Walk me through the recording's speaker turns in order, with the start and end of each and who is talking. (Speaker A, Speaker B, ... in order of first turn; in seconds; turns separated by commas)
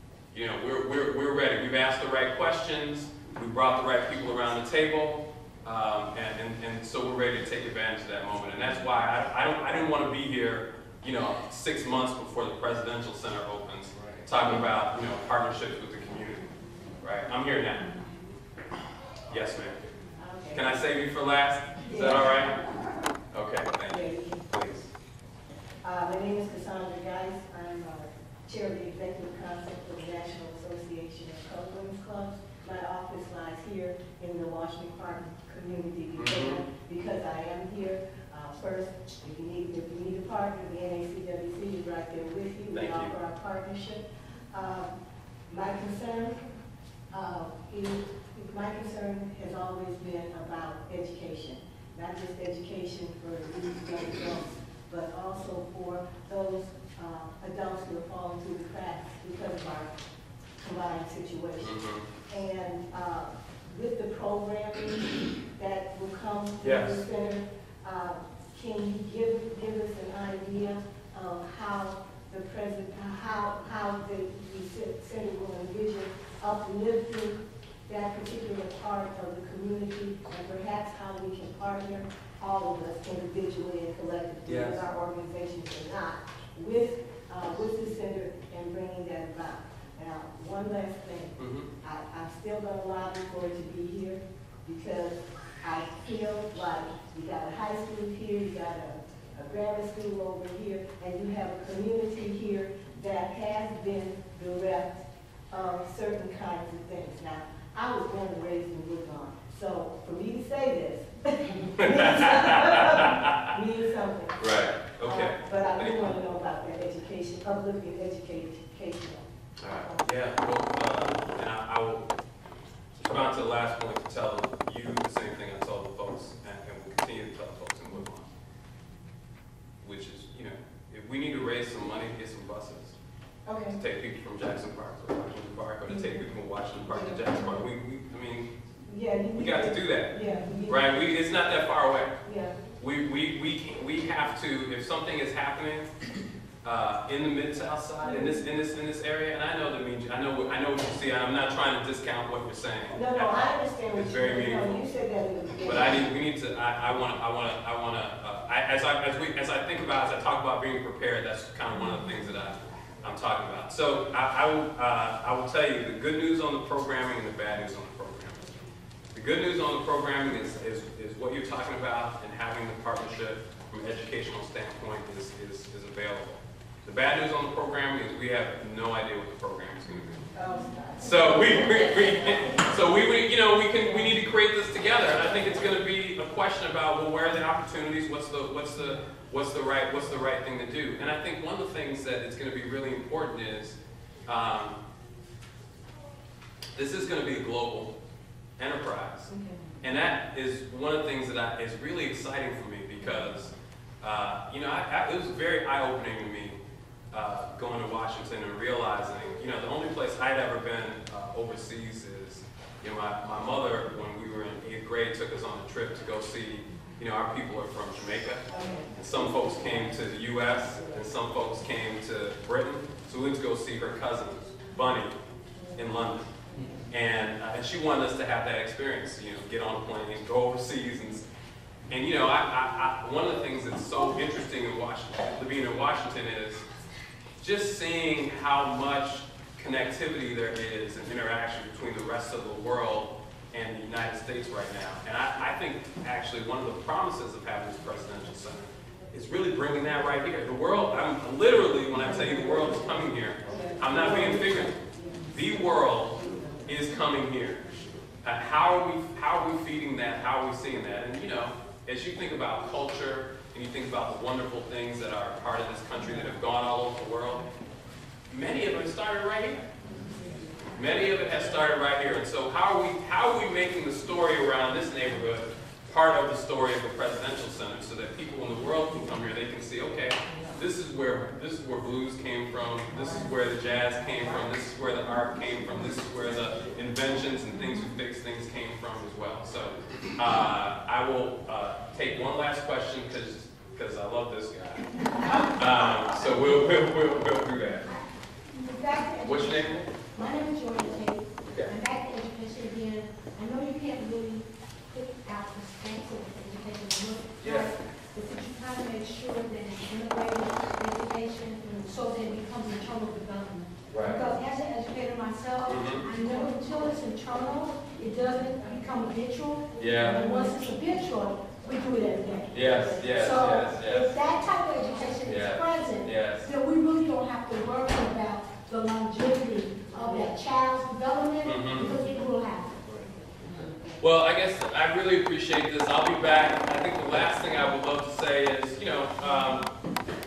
Speaker A: 0.3-16.5, Speaker A: 17.0-17.9, Speaker A: 19.3-19.9, Speaker B: 20.2-20.8, Speaker A: 20.5-22.6, Speaker B: 21.8-23.0, Speaker A: 23.3-24.9, Speaker B: 23.9-24.4, Speaker B: 25.8-44.9, Speaker A: 36.1-36.6, Speaker A: 42.7-43.1, Speaker B: 45.5-46.4, Speaker B: 47.1-59.9, Speaker B: 60.6-61.8, Speaker A: 61.6-62.0, Speaker B: 62.3-120.0, Speaker A: 66.6-67.0, Speaker A: 84.5-84.8, Speaker A: 91.4-91.7, Speaker A: 111.8-113.5, Speaker A: 114.4-116.0, Speaker A: 119.6-122.1, Speaker A: 123.0-128.3, Speaker A: 129.8-132.9, Speaker B: 133.4-133.8, Speaker A: 133.7-138.5, Speaker B: 135.9-136.2, Speaker B: 136.8-137.6, Speaker B: 138.9-140.9, Speaker A: 139.3-140.2, Speaker A: 140.7-142.2, Speaker B: 142.2-142.6, Speaker A: 142.7-145.9, Speaker A: 146.6-154.9, Speaker B: 148.0-148.4, Speaker B: 152.9-156.0, Speaker A: 155.6-180.3, Speaker B: 180.3-182.8, Speaker A: 181.0-194.8, Speaker A: 196.7-197.9, Speaker A: 198.6-206.6, Speaker A: 207.1-225.2, Speaker B: 218.6-218.9, Speaker A: 225.8-226.3, Speaker A: 226.9-231.2, Speaker A: 231.9-236.6, Speaker A: 237.4-257.6, Speaker B: 252.1-252.6, Speaker B: 253.4-255.3, Speaker B: 256.2-256.6, Speaker A: 258.2-267.5, Speaker A: 268.3-269.7, Speaker B: 270.1-270.4, Speaker A: 270.7-297.9, Speaker C: 298.5-332.8, Speaker A: 299.2-299.9, Speaker A: 301.5-301.8, Speaker A: 307.4-307.7, Speaker A: 313.9-314.2, Speaker A: 315.6-316.1, Speaker B: 316.2-316.5, Speaker A: 319.8-320.3, Speaker B: 320.1-320.5, Speaker A: 322.5-324.2, Speaker A: 325.2-326.5, Speaker B: 330.0-330.3, Speaker A: 331.4-331.9, Speaker A: 334.0-339.7